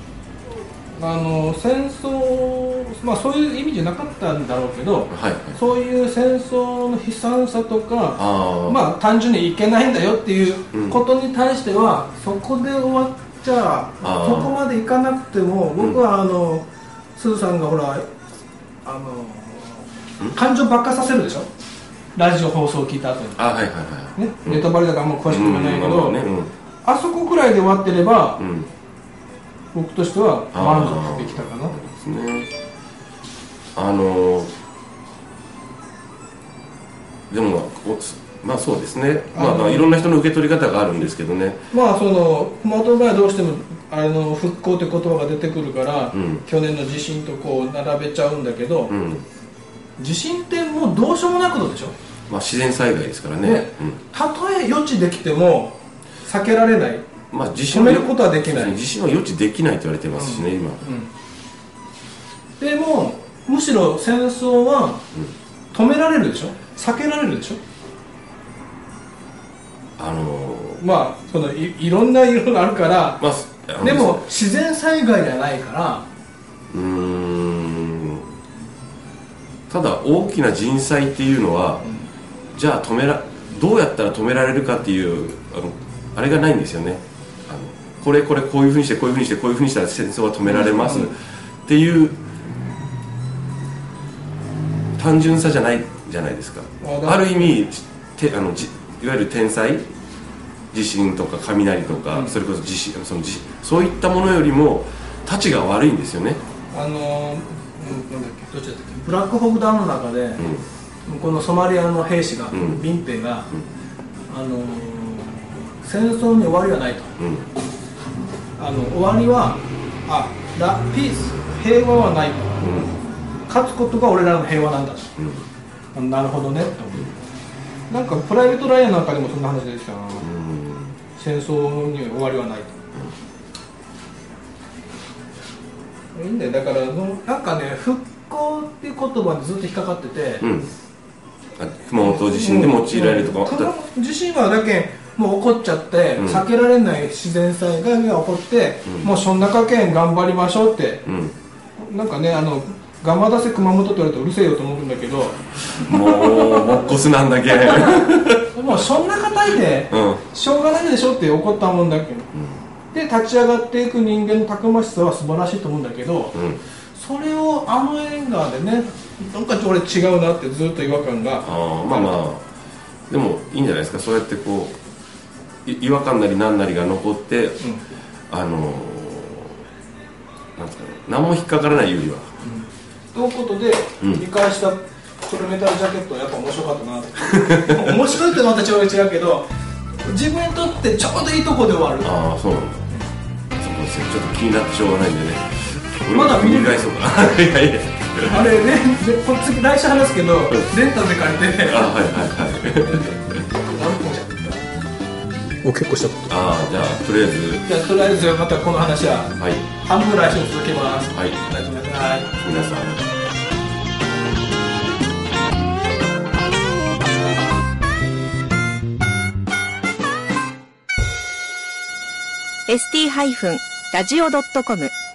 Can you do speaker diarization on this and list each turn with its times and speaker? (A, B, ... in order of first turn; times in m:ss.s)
0:01.0-0:18.0 A
0:05.1-0:05.6 B
0:08.2-0:08.8 B
0:14.0-0:14.6 B
0:18.8-0:21.5 A
0:22.2-0:23.4 A
0:23.4-0:24.7 B
0:24.2-0:26.2 A
0:25.3-0:26.5 B
0:26.8-0:28.4 A
0:28.4-0:28.7 B
0:29.7-0:31.7 A
0:30.5-0:32.5 B
0:33.8-0:34.5 B
0:37.3-0:41.6 B
0:39.3-0:40.1 A
0:41.7-0:48.9 A
0:46.1-0:46.4 B
0:48.9-0:49.2 B
0:50.0-0:51.9 A
0:52.3-0:54.0 B
0:53.4-0:57.1 A
0:57.3-1:00.8 B
0:57.7-0:58.8 A
1:00.1-1:01.1 A
1:02.6-1:05.0 A
1:05.7-1:07.6 A
1:10.0-1:10.8 B
1:10.8-1:13.2 A
1:13.2-1:14.2 B
1:13.8-1:16.1 A
1:16.7-1:18.3 B
1:19.7-1:21.8 B
1:22.5-1:32.2 B
1:30.5-1:31.1 A
1:35.0-1:39.9 B
1:36.8-1:37.5 A
1:40.7-1:46.4 B
1:42.1-1:42.4 A
1:46.7-1:50.4 A
1:50.4-1:50.6 B
1:51.1-1:53.5 A
1:52.5-1:52.8 B
1:54.3-1:57.2 A
1:57.2-1:57.5 B
1:58.6-2:02.9 A
2:02.6-2:02.9 B
2:03.5-2:05.2 A
2:05.2-2:05.4 B
2:05.9-2:07.2 A
2:07.9-2:10.3 A
2:10.2-2:11.0 B
2:11.1-2:12.8 A
2:16.1-2:20.4 A
2:20.4-2:20.7 B
2:21.6-2:23.7 B
2:22.0-2:31.1 A
2:26.2-2:26.4 B
2:31.0-2:31.3 B
2:31.8-2:36.9 A
2:35.7-2:38.5 B
2:37.5-2:42.3 A
2:39.9-2:40.2 B
2:42.9-2:46.4 A
2:46.3-2:46.6 B
2:46.9-2:52.2 A
2:51.4-2:52.4 B
2:53.1-2:54.8 B
2:55.6-2:57.6 B
2:58.3-2:59.6 B
3:00.6-3:02.3 B
3:02.4-3:09.4 A
3:07.3-3:08.0 B
3:10.0-3:12.1 A
3:12.0-3:12.9 B
3:13.6-3:18.5 B
3:16.1-3:16.9 A
3:18.2-3:21.9 A
3:21.6-3:23.4 B
3:23.5-3:24.6 A
3:25.6-3:26.3 A
3:26.3-3:27.6 B
3:27.6-3:32.4 A
3:29.4-3:29.6 B
3:32.4-3:33.0 B
3:42.7-3:44.9 C